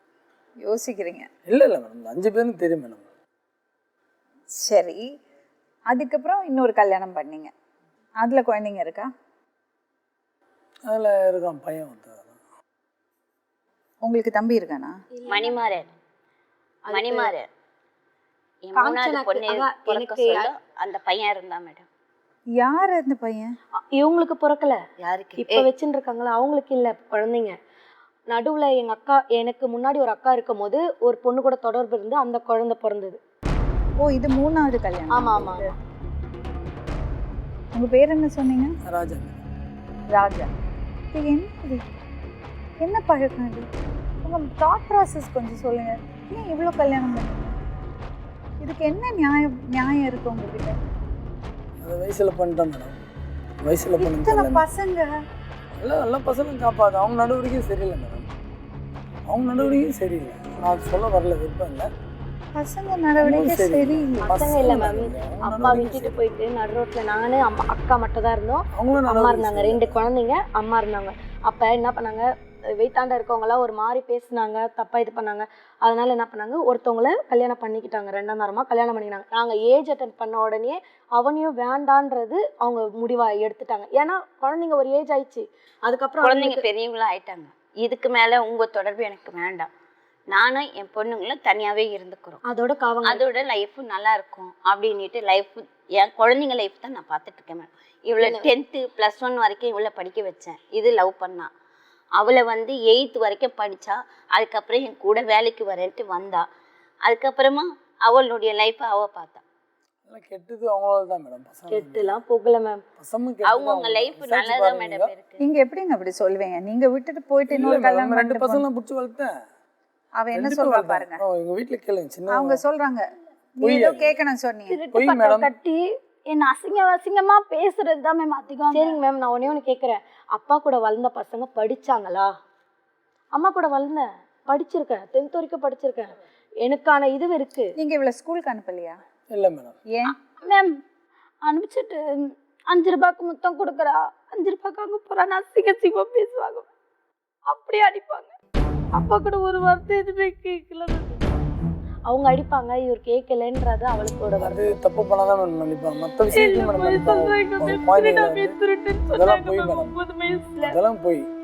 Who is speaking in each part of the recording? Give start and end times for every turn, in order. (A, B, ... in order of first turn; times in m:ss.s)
0:00.6-0:01.3 A
0:01.5-0:03.1 B
0:04.6-0:05.0 A
0:05.9-0:07.5 A
0:08.2-0:09.1 A
0:10.9-0:12.4 B
0:14.0-0:15.0 A
0:15.2-0:15.5 C
0:15.3-0:15.9 D
0:16.9-0:17.3 C
0:16.9-0:17.5 D
0:18.6-0:21.9 D
0:18.8-0:20.5 C
0:22.6-0:23.5 A
0:23.9-0:24.8 C
0:25.0-0:25.7 D
0:25.4-0:27.6 C
0:28.3-0:33.2 C
0:34.0-0:35.7 A
0:35.1-0:35.7 C
0:37.7-0:38.7 A
0:38.8-0:39.4 B
0:40.1-0:40.5 A
0:41.1-0:41.8 A
0:42.8-0:43.7 A
0:44.2-0:47.6 A
0:48.6-0:50.8 A
0:51.8-0:53.0 B
0:53.6-0:54.6 B
0:54.0-0:55.2 A
0:55.7-0:58.3 B
0:59.3-1:01.9 B
1:02.6-1:04.5 A
1:03.2-1:06.1 B
1:04.2-1:26.6 C
1:08.7-1:10.0 B
1:26.2-1:29.7 D
1:30.3-1:32.4 D
1:32.4-1:33.2 C
1:33.0-1:41.5 D
1:38.2-1:38.5 C
1:42.2-1:46.5 D
1:47.0-1:49.4 D
1:50.0-1:52.2 B
1:51.7-1:52.8 C
1:53.0-1:55.1 B
1:53.4-1:55.4 D
1:55.4-1:58.7 A
1:57.5-1:59.3 B
2:00.2-2:01.2 A
2:00.3-2:02.6 B
2:02.3-2:03.0 A
2:03.6-2:04.8 A
2:03.6-2:04.2 B
2:04.7-2:08.9 E
2:04.9-2:05.5 B
2:08.7-2:12.3 C
2:13.4-2:17.7 C
2:17.8-2:19.0 A
2:19.3-2:19.8 B
2:20.4-2:20.8 E
2:21.4-2:26.7 E
2:27.5-2:28.3 E
2:29.0-2:31.3 C
2:32.1-2:34.7 C
2:34.4-2:38.6 B
2:36.3-2:40.7 C
2:39.1-2:40.0 B
2:40.6-2:41.3 B